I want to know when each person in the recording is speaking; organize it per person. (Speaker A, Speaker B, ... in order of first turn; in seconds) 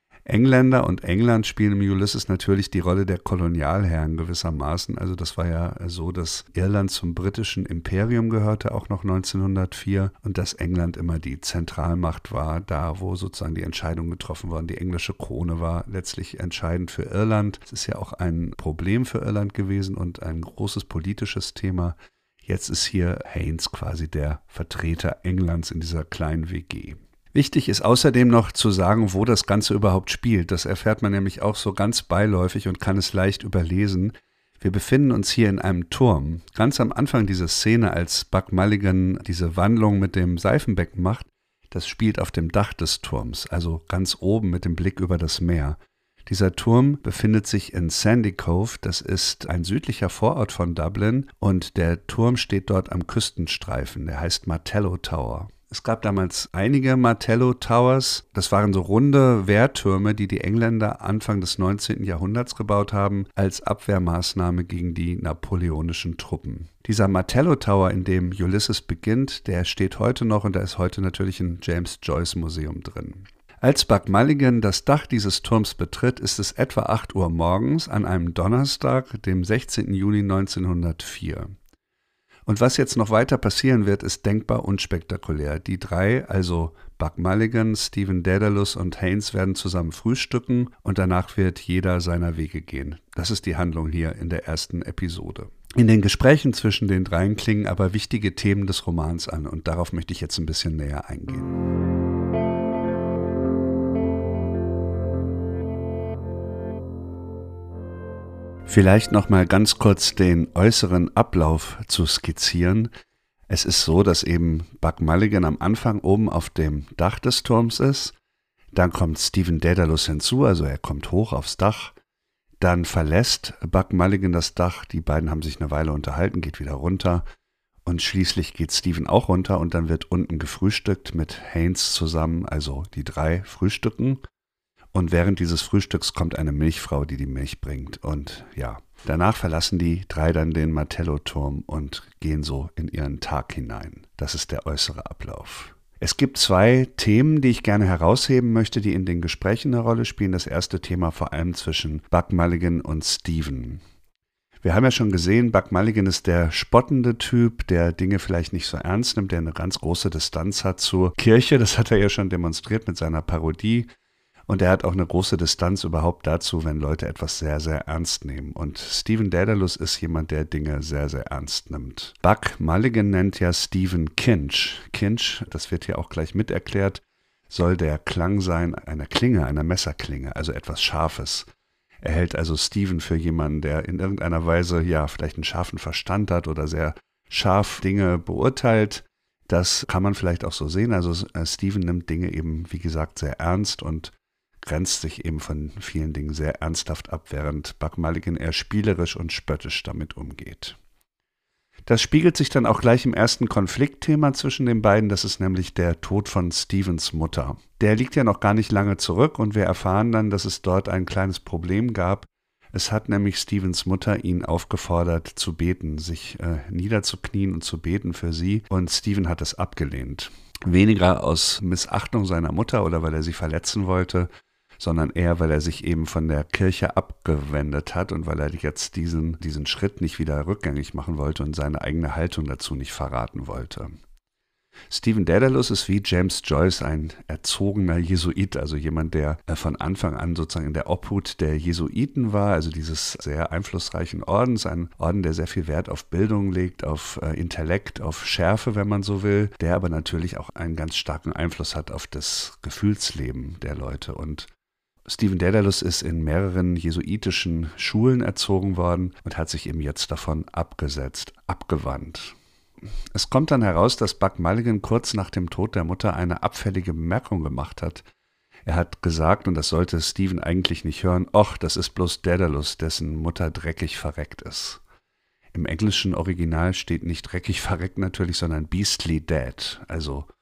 Speaker A: 0.3-81.5, 82.5-101.6, 108.7-112.9, 113.5-118.1, 118.7-121.9, 122.6-127.2, 127.8-134.2, 134.9-153.8, 154.6-163.9, 164.5-181.5, 182.0-200.8, 201.8-234.0, 234.9-254.5, 255.1-262.4, 263.1-268.1, 268.6-274.8, 275.5-280.3